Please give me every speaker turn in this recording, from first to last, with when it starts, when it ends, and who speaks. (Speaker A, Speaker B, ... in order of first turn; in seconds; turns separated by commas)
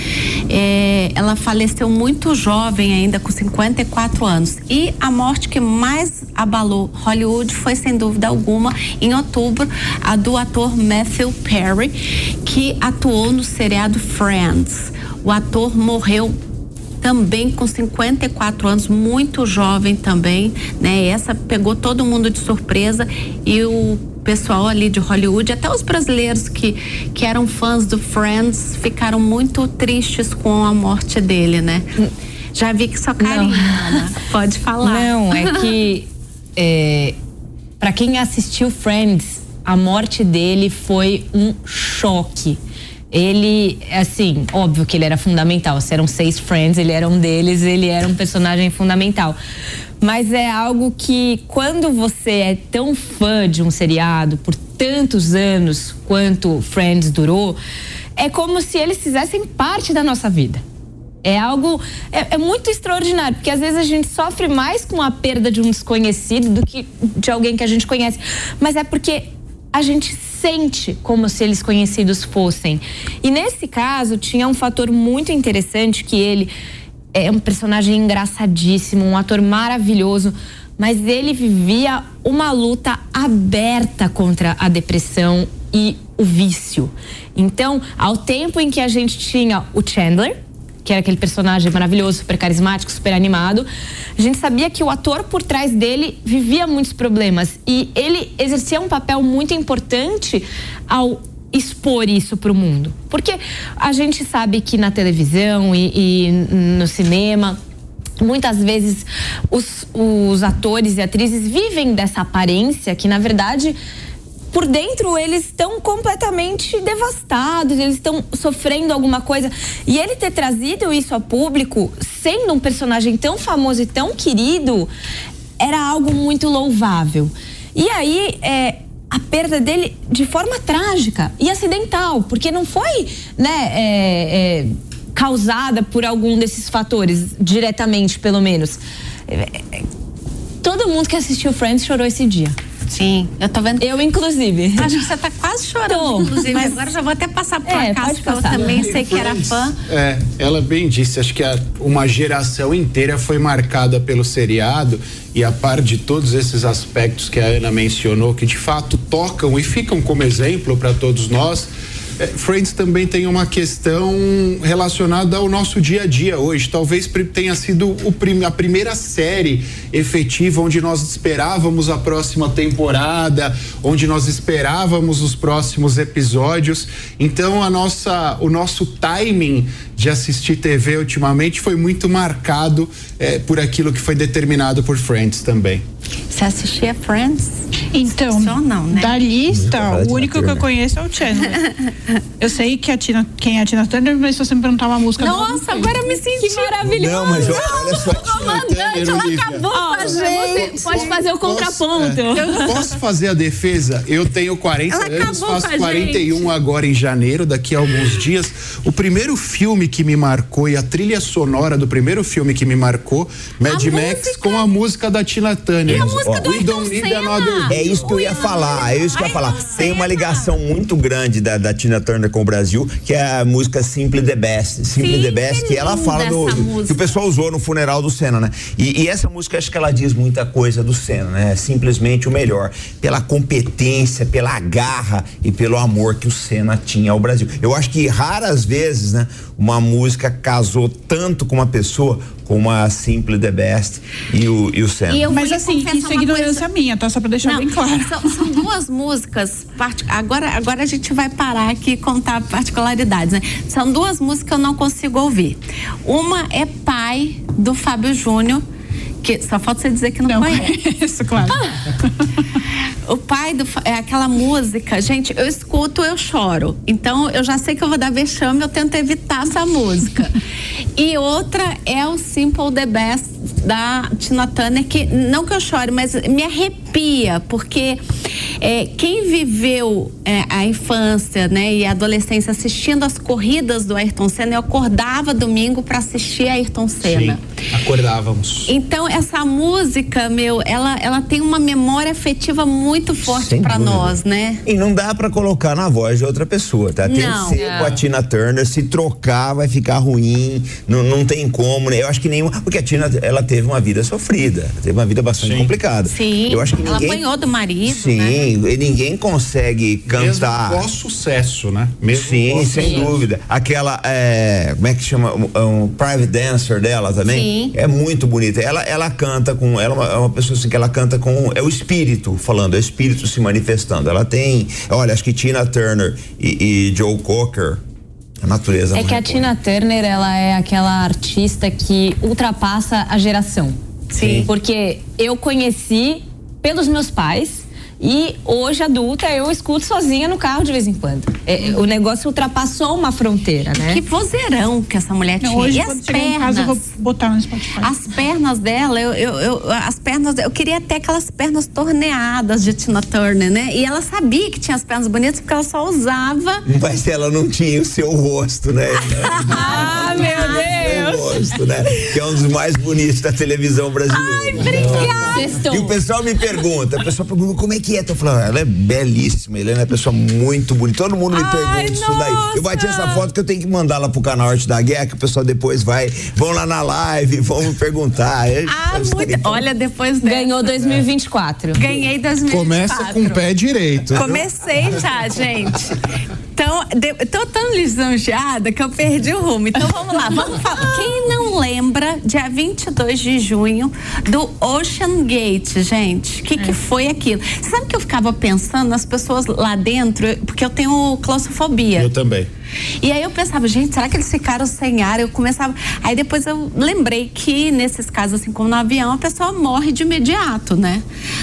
Speaker A: 0.5-16.3, Speaker A: 17.0-31.9, Speaker A: 32.5-35.7, Speaker B: 33.2-34.0, Speaker B: 34.8-37.1, Speaker B: 37.8-42.6, Speaker B: 43.1-49.4, Speaker B: 50.0-57.6, Speaker B: 58.2-60.6, Speaker B: 61.2-76.5, Speaker B: 77.1-93.7, Speaker B: 94.2-107.6, Speaker B: 108.2-113.8, Speaker B: 114.5-124.9, Speaker B: 125.6-139.8, Speaker B: 140.6-142.6, Speaker A: 142.9-143.9, Speaker B: 143.8-144.9, Speaker A: 144.8-149.8, Speaker B: 145.9-146.5, Speaker B: 147.7-148.9, Speaker C: 148.5-185.8, Speaker A: 186.3-189.2, Speaker D: 187.9-191.7, Speaker E: 189.5-190.7, Speaker A: 191.3-191.7, Speaker D: 192.4-196.0, Speaker A: 195.2-201.2, Speaker B: 196.4-198.6, Speaker E: 196.9-198.7, Speaker C: 198.2-218.1, Speaker B: 199.7-202.7, Speaker D: 202.3-202.8, Speaker A: 213.7-214.7, Speaker E: 215.9-216.6, Speaker A: 215.9-220.5, Speaker E: 217.7-245.2, Speaker A: 224.9-227.1, Speaker A: 245.1-246.7, Speaker D: 245.3-248.6, Speaker A: 247.4-258.6, Speaker A: 259.2-260.7, Speaker D: 260.2-261.6, Speaker A: 261.5-261.7, Speaker A: 263.1-270.4, Speaker A: 270.9-278.0, Speaker A: 278.6-287.4, Speaker C: 287.0-288.7, Speaker A: 288.7-294.6, Speaker E: 293.2-307.2, Speaker A: 297.0-297.8, Speaker B: 297.6-297.9, Speaker C: 305.4-305.7, Speaker A: 306.1-308.5, Speaker E: 307.9-310.8, Speaker C: 310.1-313.2, Speaker E: 312.1-327.8, Speaker B: 312.8-313.0, Speaker A: 317.2-317.7, Speaker E: 328.4-329.5, Speaker B: 328.9-333.8, Speaker A: 334.1-334.5, Speaker E: 334.1-334.5, Speaker B: 334.4-344.0, Speaker A: 343.7-346.8, Speaker D: 345.4-347.9, Speaker A: 347.8-356.6, Speaker E: 356.7-379.6, Speaker A: 359.0-361.0, Speaker B: 359.5-361.1, Speaker A: 364.1-365.6, Speaker C: 364.6-365.4, Speaker B: 365.3-365.9, Speaker A: 371.3-373.3, Speaker A: 378.7-380.7, Speaker B: 380.2-381.8, Speaker A: 381.8-383.4, Speaker C: 382.5-384.4, Speaker A: 384.1-386.0, Speaker A: 386.5-402.1, Speaker C: 402.0-402.5, Speaker A: 403.0-411.0